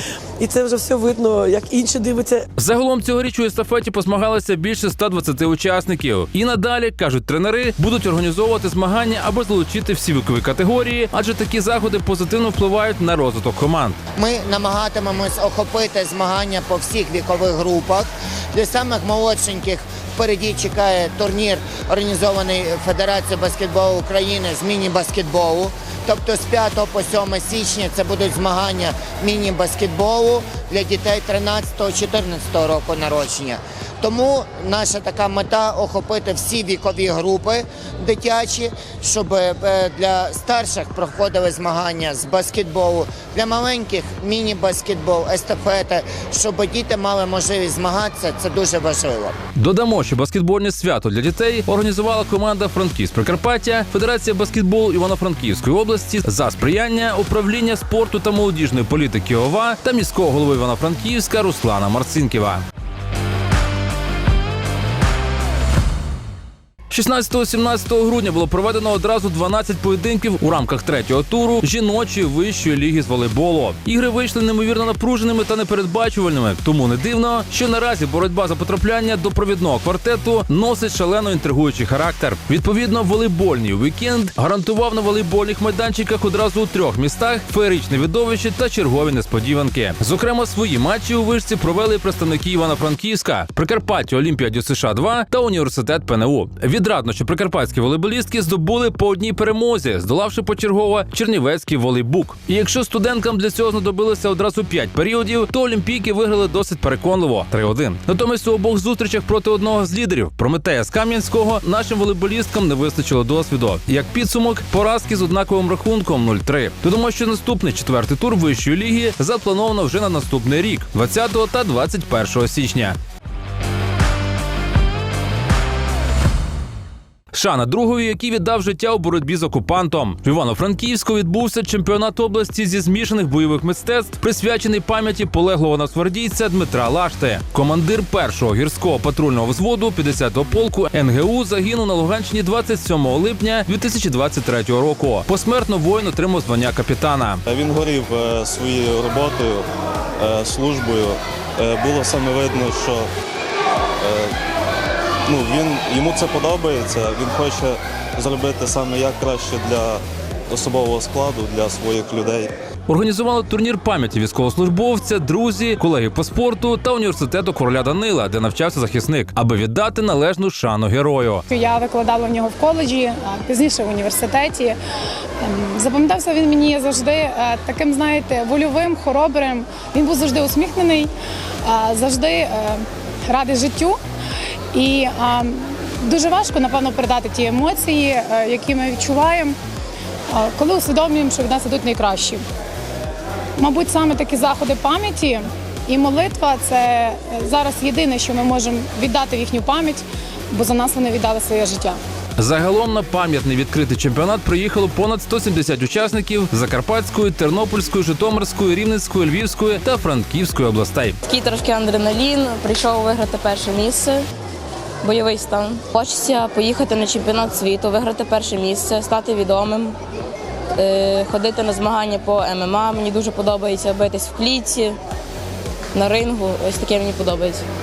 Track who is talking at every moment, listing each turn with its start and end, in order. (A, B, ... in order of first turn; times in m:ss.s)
0:00.4-0:02.5 A
0:02.6-0:14.0 B
0:14.2-0:49.3 C
0:49.6-1:02.6 B
1:06.9-2:03.0 B
2:07.3-2:27.4 B
2:27.5-2:29.6 D
2:30.2-2:33.1 D
2:34.0-2:34.3 D
2:35.2-2:42.5 D
2:42.9-2:51.4 B
2:51.5-2:54.8 E
2:55.4-3:01.1 E
3:01.6-3:04.0 E
3:04.7-3:09.6 E
3:10.3-3:12.4 E
3:13.6-3:22.0 E
3:22.4-3:31.2 B
3:31.2-3:34.2 F
3:35.0-3:40.0 F
3:40.8-3:45.0 F
3:45.9-3:47.6 F